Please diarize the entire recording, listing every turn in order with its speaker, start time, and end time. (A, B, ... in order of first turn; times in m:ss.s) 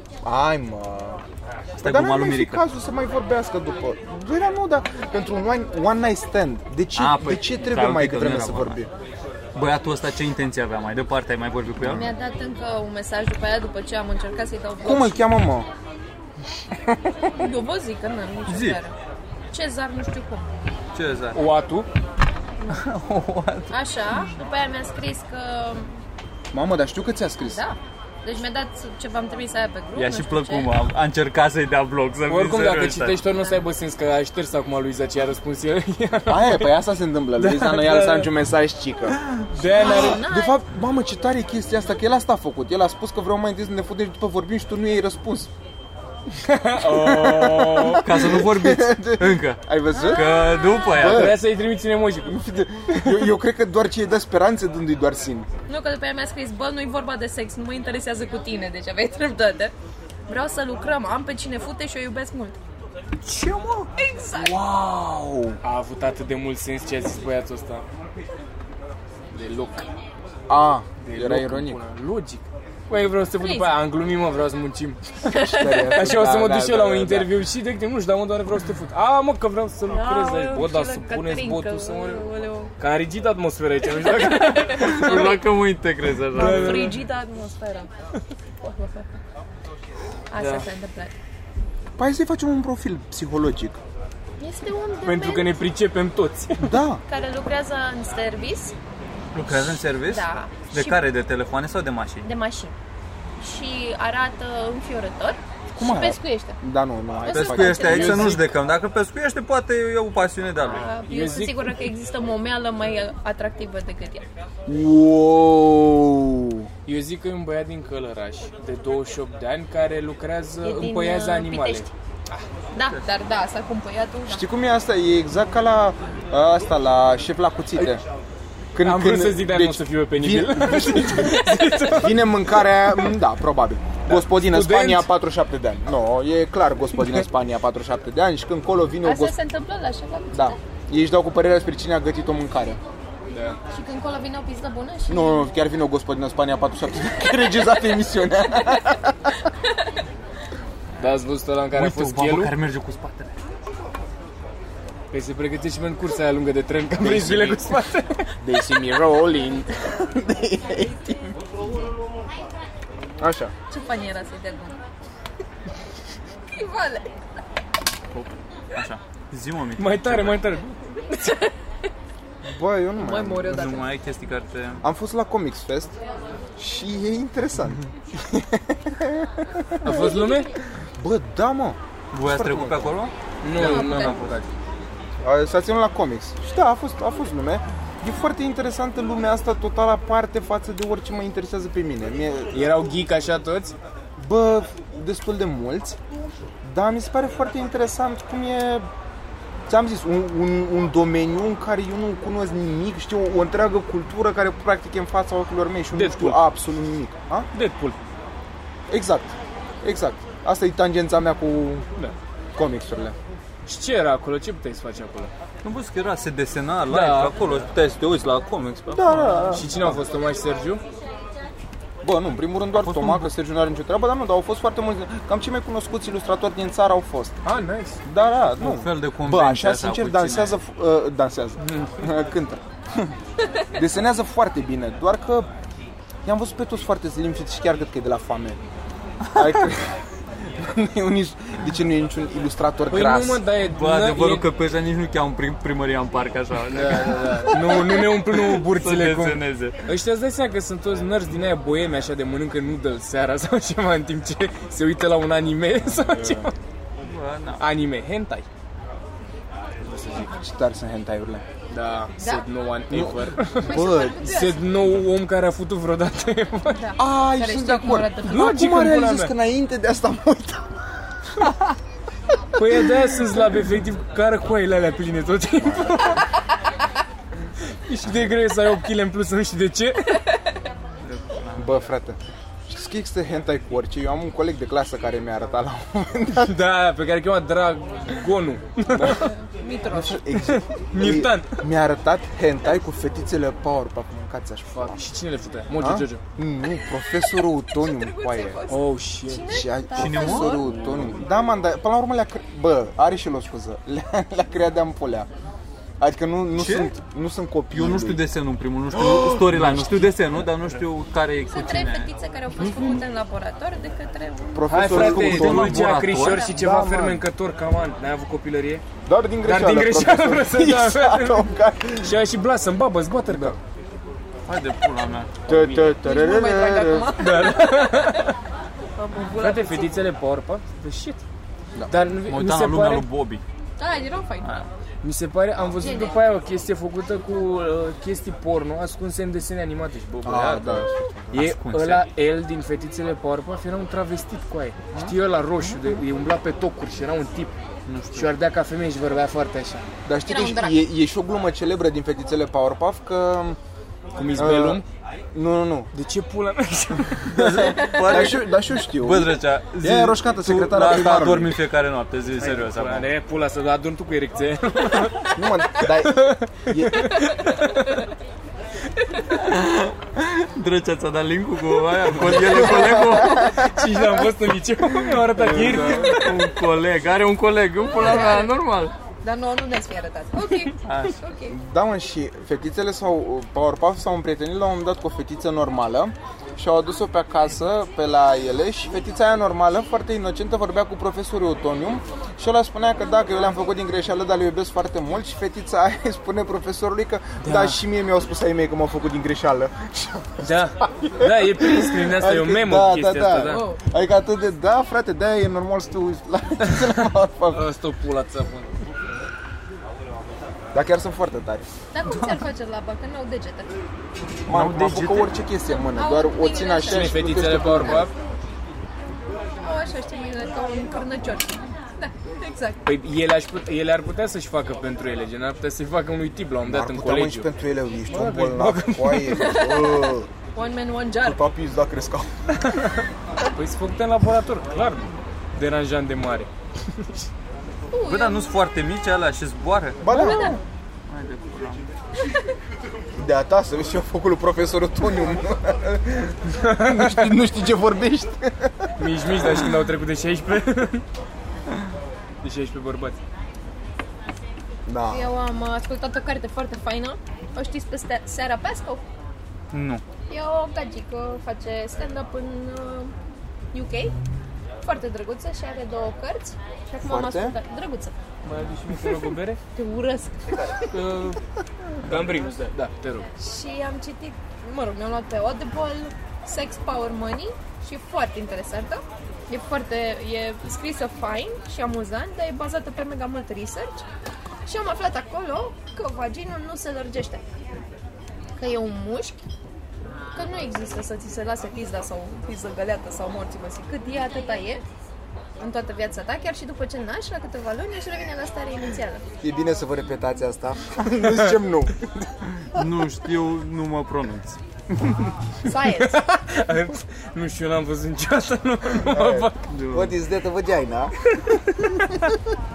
0:00.2-0:01.2 A
0:01.8-0:08.9 A
0:01.8-0:02.6 B
0:07.0-0:08.8 B
0:09.6-0:12.1 B
0:11.8-0:12.1 A
0:11.8-0:15.2 C
0:14.8-0:15.7 A
0:17.3-0:18.9 C
0:18.5-0:18.8 B
0:19.5-0:20.5 C
0:20.9-0:21.4 B
0:21.3-0:21.9 D
0:22.7-0:23.8 B
0:23.7-0:26.0 C
0:26.5-0:27.6 A
0:27.5-0:30.7 C
0:30.0-0:33.2 B
0:32.3-0:36.8 D
0:33.3-0:33.6 C
0:36.3-0:45.5 A
0:37.4-0:38.3 D
0:39.5-0:40.2 D
0:39.7-0:40.6 C
0:46.3-0:48.0 D
0:46.8-0:51.4 A
0:47.9-0:51.4 B
0:49.9-0:51.0 C
0:51.0-0:52.4 D
0:52.3-0:55.5 A
0:55.7-0:59.7 C
1:00.3-1:02.6 C
1:04.0-1:04.6 C
1:04.3-1:05.6 A
1:05.6-1:07.8 D
1:09.3-1:09.9 D
1:10.5-1:11.8 A
1:11.0-1:15.0 D
1:13.4-1:13.8 C
1:15.3-1:16.2 C
1:15.3-1:17.3 A
1:15.9-1:25.4 D
1:19.9-1:22.7 C
1:24.0-1:25.4 C
1:24.7-1:27.0 B
1:26.3-1:27.0 D
1:26.3-1:27.9 C
1:28.6-1:29.1 C
1:30.3-1:31.1 C
1:30.4-1:30.7 B
1:32.0-1:33.8 A
1:34.4-1:35.6 C
1:35.0-1:36.8 D
1:36.6-1:37.0 A
1:37.1-1:38.7 C
1:39.3-1:42.3 B
1:40.0-1:41.0 C
1:42.2-1:42.8 C
1:43.4-1:46.6 C
1:45.8-1:48.4 A
1:47.2-1:48.4 C
1:47.3-1:50.9 B
1:47.9-1:48.5 D
1:50.6-1:54.3 C
1:51.0-1:51.7 D
1:54.7-1:56.7 A
1:56.9-2:02.4 D
2:00.6-2:01.9 C
2:02.7-2:04.4 C
2:04.3-2:08.0 A
2:08.7-2:19.4 A
2:08.8-2:12.8 D
2:11.4-2:11.8 C
2:14.1-2:15.1 D
2:19.0-2:20.6 C
2:20.3-2:22.8 A
2:23.3-2:23.6 D
2:23.7-2:25.5 C
2:25.1-2:29.4 A
2:31.0-2:32.5 D
2:31.7-2:33.4 B
2:35.1-2:38.4 D
2:37.0-2:37.8 A
2:38.4-2:41.4 A
2:43.2-2:43.5 A
2:43.7-2:44.8 C
2:46.6-2:47.1 C
2:48.1-2:50.4 B
2:49.8-2:51.3 D
2:52.4-2:53.8 A
2:53.0-2:53.9 C
2:53.5-2:54.8 B
2:54.8-2:56.0 A
2:56.6-3:00.2 A
2:59.8-3:00.5 D
2:59.9-3:00.4 C
3:01.0-3:03.0 A
3:02.1-3:04.4 B
3:03.4-3:04.5 D
3:03.6-3:04.2 C
3:05.2-3:12.7 A
3:12.5-3:13.8 D
3:14.2-3:16.0 A
3:16.6-3:18.9 A
3:19.7-3:27.5 A
3:25.9-3:26.4 D
3:27.5-3:28.0 D
3:28.9-3:31.9 A
3:32.6-3:33.2 A
3:33.7-3:35.3 D
3:35.6-3:39.5 B
3:36.9-3:37.6 D
3:38.9-3:40.0 A
3:39.5-3:40.8 D
3:42.0-3:47.4 A
3:42.8-3:43.3 B
3:47.4-3:48.0 D
3:48.0-3:53.1 A
3:48.6-3:50.6 B
3:51.7-3:51.9 D
3:53.7-3:55.5 A
3:56.2-3:58.6 A
3:59.4-4:03.4 A
4:02.9-4:04.5 D
4:03.6-4:09.8 B
4:06.7-4:16.5 D
4:16.0-4:16.5 A
4:17.0-4:17.6 B
4:17.6-4:18.5 D
4:19.8-4:20.3 D
4:20.2-4:21.4 A
4:21.7-4:26.8 D
4:22.2-4:22.5 C
4:22.9-4:24.2 A
4:23.6-4:24.7 C
4:26.7-4:28.7 C
4:27.0-4:31.0 A
4:28.2-4:29.3 D
4:32.6-4:36.2 D
4:35.6-4:36.2 A
4:37.9-4:40.2 D
4:41.0-4:41.8 B
4:41.6-4:46.6 A
4:46.4-4:49.3 D
4:48.9-4:49.2 A
4:49.2-4:50.2 C
4:49.9-4:54.8 A
4:50.4-4:51.6 D
4:54.7-4:56.2 D
4:55.8-4:58.6 A
4:57.8-5:00.8 C
4:58.7-4:59.6 D
4:59.5-5:05.3 A
4:59.9-5:01.0 B
5:00.8-5:01.1 D
5:06.0-5:08.2 A
5:06.6-5:06.9 B
5:07.7-5:12.1 B
5:08.9-5:10.3 A
5:11.5-5:14.8 C
5:14.5-5:17.2 A
5:14.7-5:18.8 D
5:14.8-5:16.5 B
5:16.1-5:16.5 C
5:19.1-5:22.2 A
5:19.4-5:21.5 D
5:22.0-5:23.6 D
5:23.3-5:23.6 A
5:24.5-5:25.4 B
5:25.5-5:27.2 A
5:25.8-5:28.2 C
5:27.2-5:28.3 D
5:29.0-5:30.0 C
5:29.4-5:31.2 D
5:31.9-5:33.1 D
5:32.3-5:33.4 B
5:33.8-5:34.6 C
5:34.4-5:34.7 B
5:35.0-5:47.6 D
5:35.8-5:36.2 C
5:40.2-5:41.4 A
5:41.3-5:42.1 B
5:47.9-5:48.3 B
5:48.1-5:49.8 D
5:50.1-5:53.6 A
5:50.2-5:50.8 C
5:54.2-5:54.8 D
5:54.4-5:55.9 A
5:55.9-5:57.7 D
5:57.3-6:03.1 B
5:57.4-6:01.6 A
5:57.7-5:58.3 C
6:02.4-6:08.0 D
6:05.3-6:07.3 A
6:09.3-6:13.6 B
6:12.3-6:16.5 D
6:12.4-6:13.6 A
6:15.4-6:16.2 A
6:15.4-6:18.9 B
6:17.9-6:18.5 C
6:19.2-6:21.6 C
6:20.8-6:21.2 B
6:21.5-6:47.6 A
6:37.4-6:37.8 D
6:40.4-6:43.6 D
6:43.5-6:43.8 C
6:46.7-6:46.9 D
6:47.5-6:48.9 D
6:50.7-6:51.7 A
6:51.9-6:53.7 C
6:52.0-6:52.4 B
6:54.5-6:55.3 B
6:54.5-6:58.1 A
6:55.7-6:57.2 C
6:56.8-6:58.1 D
6:59.6-7:02.8 C
7:02.8-7:07.5 D
7:06.6-7:10.3 A
7:08.1-7:09.4 D
7:09.3-7:11.4 C
7:11.2-7:12.3 A
7:12.6-7:17.2 D
7:17.9-7:18.6 C
7:18.0-7:20.4 B
7:20.0-7:20.6 A
7:20.1-7:20.6 C
7:21.1-7:21.9 B
7:23.2-7:28.9 A
7:26.6-7:27.3 D
7:29.0-7:31.0 D
7:32.4-7:33.2 D
7:34.9-7:35.3 A
7:35.1-7:39.0 C
7:39.7-7:40.0 B
7:40.3-7:43.1 C
7:43.7-7:44.2 C
7:44.8-7:48.1 C
7:47.0-7:47.6 A
7:48.4-7:49.6 D
7:49.7-7:50.9 C
7:50.9-7:51.4 D
7:52.0-7:53.3 D
7:53.4-8:04.0 C
8:04.7-8:07.4 C
8:08.6-8:09.4 C
8:10.3-8:14.8 C
8:15.6-8:19.2 C
8:19.4-8:22.8 A
8:22.6-8:24.6 B
8:25.6-8:26.2 C
8:25.8-8:29.6 D
8:29.0-8:32.4 A
8:29.7-8:30.2 B